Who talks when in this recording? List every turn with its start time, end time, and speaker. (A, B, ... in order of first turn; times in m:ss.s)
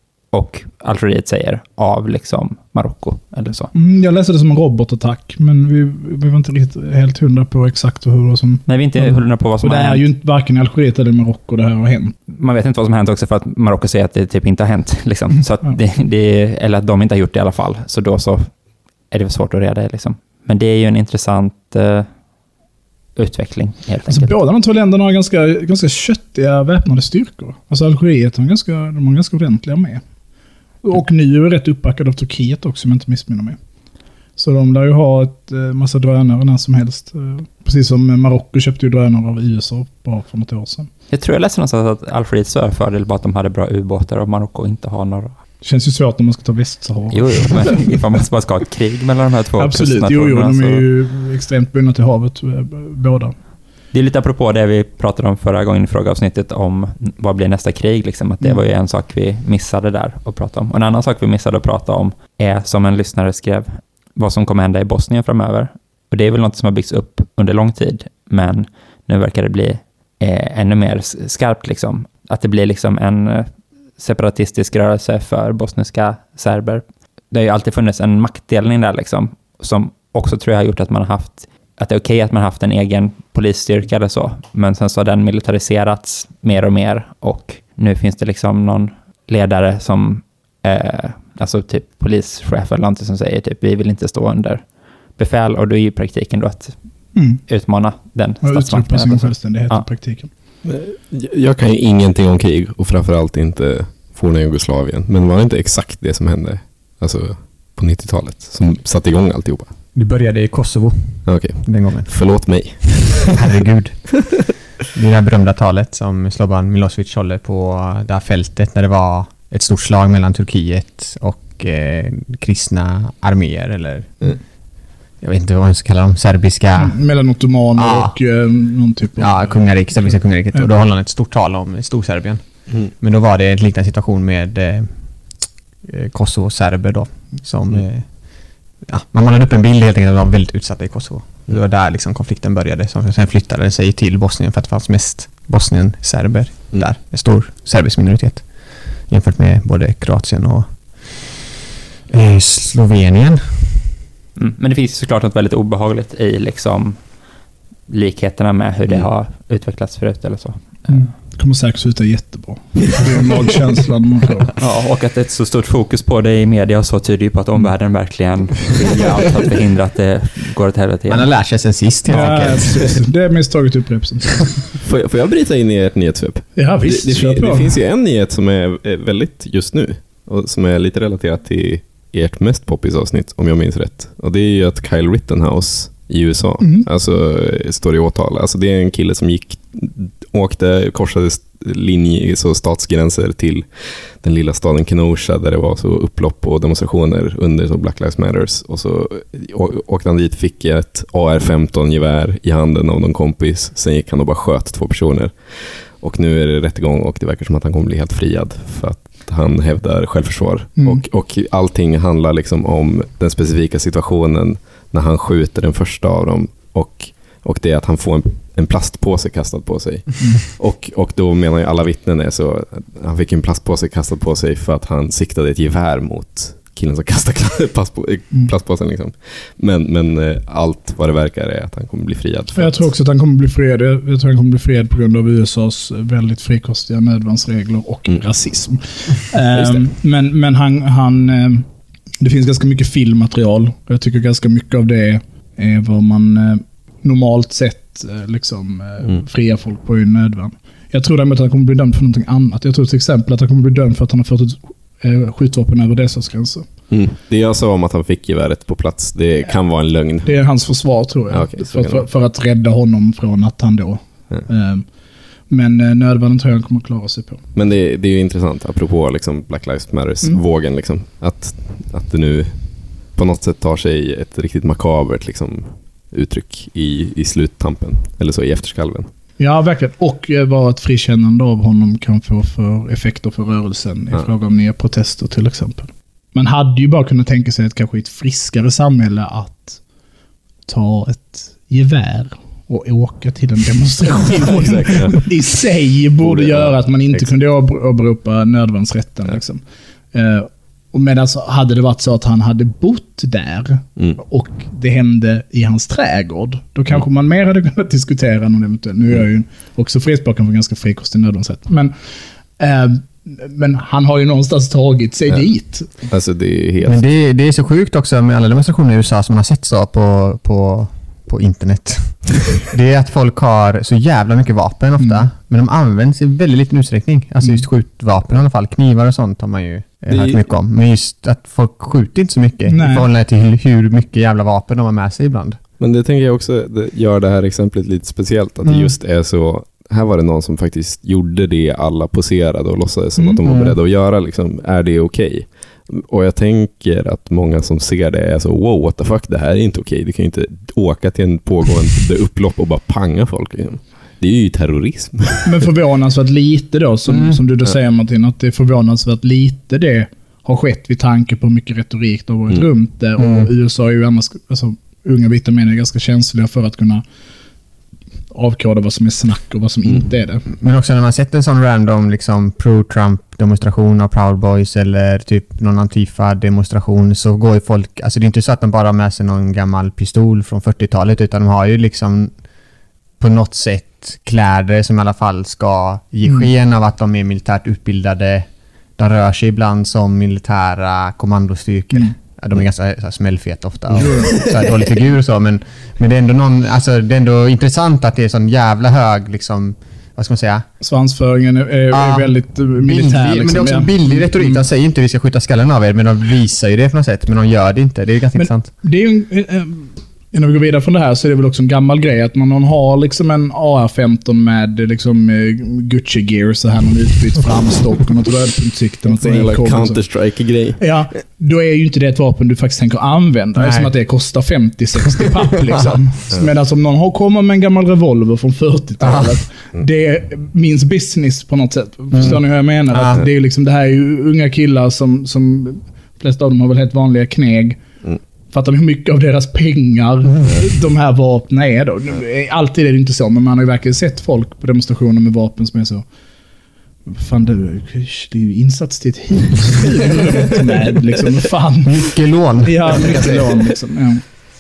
0:00.3-0:03.7 A
0:03.7-0:12.1 B
0:08.7-0:10.1 A
0:12.3-0:18.5 A
0:19.1-0:22.1 A
0:23.2-0:24.4 A
0:24.1-0:30.0 B
0:30.8-0:33.6 B
0:34.4-0:40.9 B
0:41.1-0:45.4 A
0:45.6-0:47.8 B
0:47.1-0:50.9 A
0:49.6-0:53.3 B
0:53.9-1:34.6 A
1:35.2-1:36.8 A
1:37.1-1:37.4 B
1:37.5-1:39.9 A
1:38.4-1:40.3 B
1:40.6-1:49.7 C
1:50.0-1:52.8 D
1:51.2-1:53.4 C
1:53.3-1:54.2 D
1:54.9-2:04.3 D
2:05.2-2:07.0 D
2:06.8-2:09.5 B
2:07.8-2:08.1 D
2:09.2-2:14.9 D
2:15.8-2:18.1 D
2:18.8-2:28.5 D
2:29.1-2:31.3 D
2:32.1-2:33.9 D
2:34.4-2:37.0 A
2:37.9-2:41.0 A
2:40.9-2:44.5 B
2:44.6-2:51.3 A
2:51.1-2:53.0 D
2:52.1-2:54.6 B
2:54.8-3:52.9 C
2:56.6-2:57.8 B
3:06.6-3:06.9 B
3:30.8-3:31.0 B
3:52.6-4:01.7 B
4:02.2-4:16.7 B
4:16.9-4:20.4 C
4:20.2-4:24.8 B
4:21.3-4:22.1 C
4:25.5-4:27.4 B
4:27.6-4:39.1 C
4:39.4-4:49.8 B
4:50.6-4:59.6 B
4:54.4-4:55.2 C
4:56.2-4:57.3 C
5:00.1-5:11.9 B
5:12.6-5:15.9 B
5:16.1-5:17.0 C
5:16.8-5:35.6 D
5:30.1-5:30.4 C
5:32.7-5:33.1 B
5:35.8-5:55.7 C
5:38.6-5:38.9 D
5:43.2-5:43.4 B
5:43.5-5:43.8 D
5:55.4-6:07.0 B
5:57.1-5:57.4 D
6:03.2-6:03.5 D
6:08.3-6:10.5 B
6:10.6-6:22.3 D
6:23.2-6:40.6 D
6:26.2-6:26.5 B
6:34.0-6:34.4 B
6:34.2-6:34.6 C
6:40.8-6:44.6 B
6:41.9-6:48.7 D
6:48.4-7:00.0 B
6:59.1-7:00.9 C
7:00.8-7:17.8 B
7:03.6-7:03.9 D
7:09.0-7:09.4 D
7:12.9-7:13.2 D
7:18.5-7:26.0 B
7:27.1-7:34.2 B
7:31.8-7:33.5 D